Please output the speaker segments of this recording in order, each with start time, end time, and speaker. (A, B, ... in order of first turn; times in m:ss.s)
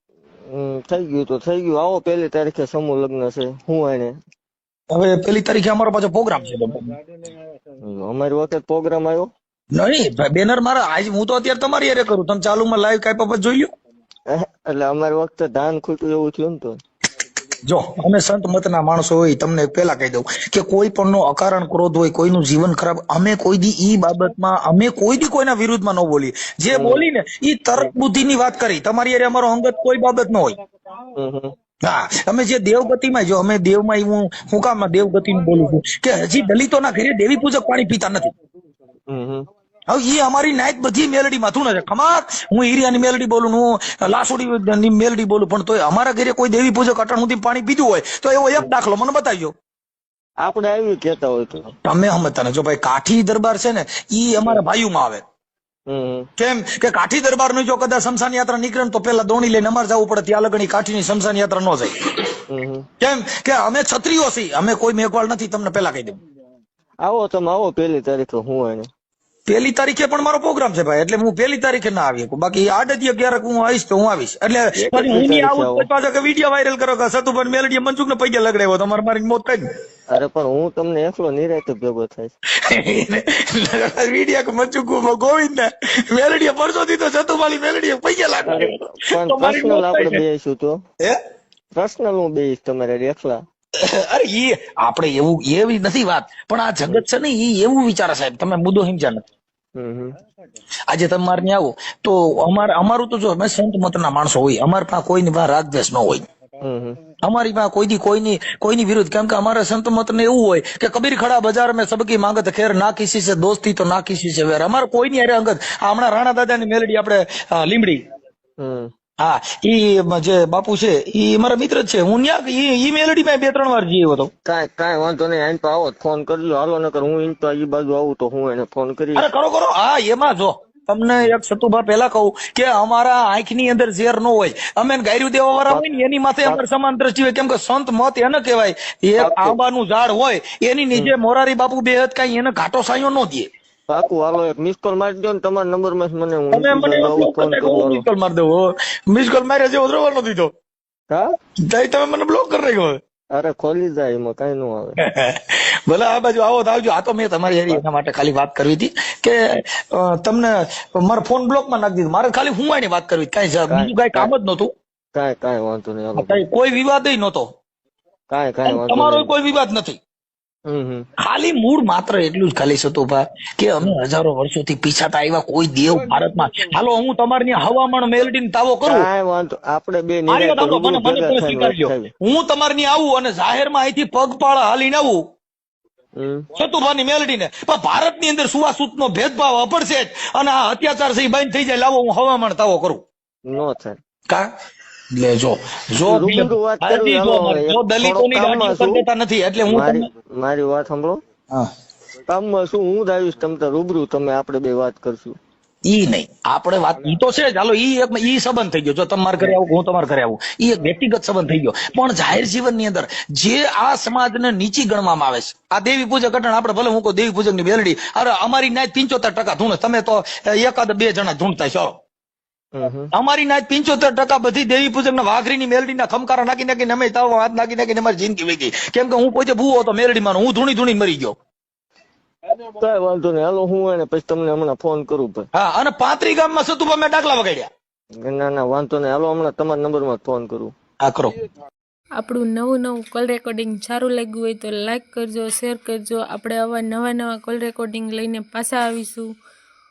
0:00.5-0:04.2 A
0:04.9-0:07.0 B
0:07.8-0:09.3 A
0:09.7-0:13.7 B
0:14.3-0:16.8 A
0:17.6-0:30.6 B
0:26.7-0:27.0 A
0:31.2-0:31.5 A
0:31.8-0:38.3 B
0:39.1-0:39.5 A
0:39.9-0:49.5 B
0:50.4-0:51.7 A
0:51.8-0:55.2 B
0:55.9-0:56.3 A
0:56.4-1:01.9 B
1:02.5-1:02.9 A
1:03.0-1:06.2 B
1:07.0-1:08.9 A
1:09.5-1:19.6 B
1:14.8-1:15.9 A
1:20.1-1:22.3 A
1:22.6-1:30.2 B
1:28.4-1:30.8 A
1:31.7-1:33.4 A
1:33.8-1:39.2 B
1:39.8-1:40.2 A
1:40.9-1:46.2 B
1:46.6-1:47.0 A
1:47.2-1:58.0 B
1:58.6-1:58.9 A
1:59.2-2:04.3 B
2:04.5-2:09.3 A
2:09.2-2:23.5 B
2:19.2-2:19.6 A
2:23.9-2:28.1 A
2:26.5-2:30.5 B
2:31.6-2:33.0 B
2:33.3-2:35.0 A
2:35.0-2:44.7 B
2:43.7-2:44.3 A
2:45.1-2:46.4 A
2:46.2-2:47.5 B
2:48.3-2:49.3 A
2:48.7-2:50.0 B
2:50.7-2:51.1 A
2:51.2-2:59.1 B
2:58.9-3:02.1 A
3:00.3-3:05.2 B
3:06.2-3:06.5 A
3:06.6-3:13.0 B
3:13.5-3:14.0 A
3:15.1-3:20.1 B
3:16.0-3:19.0 A
3:19.7-3:21.2 A
3:22.3-3:25.4 A
3:25.9-3:42.0 B
3:42.7-3:43.1 A
3:43.1-3:51.4 B
3:52.7-3:55.5 A
3:55.5-3:57.7 B
3:58.2-4:00.7 A
4:01.0-4:01.3 B
4:02.2-4:09.3 C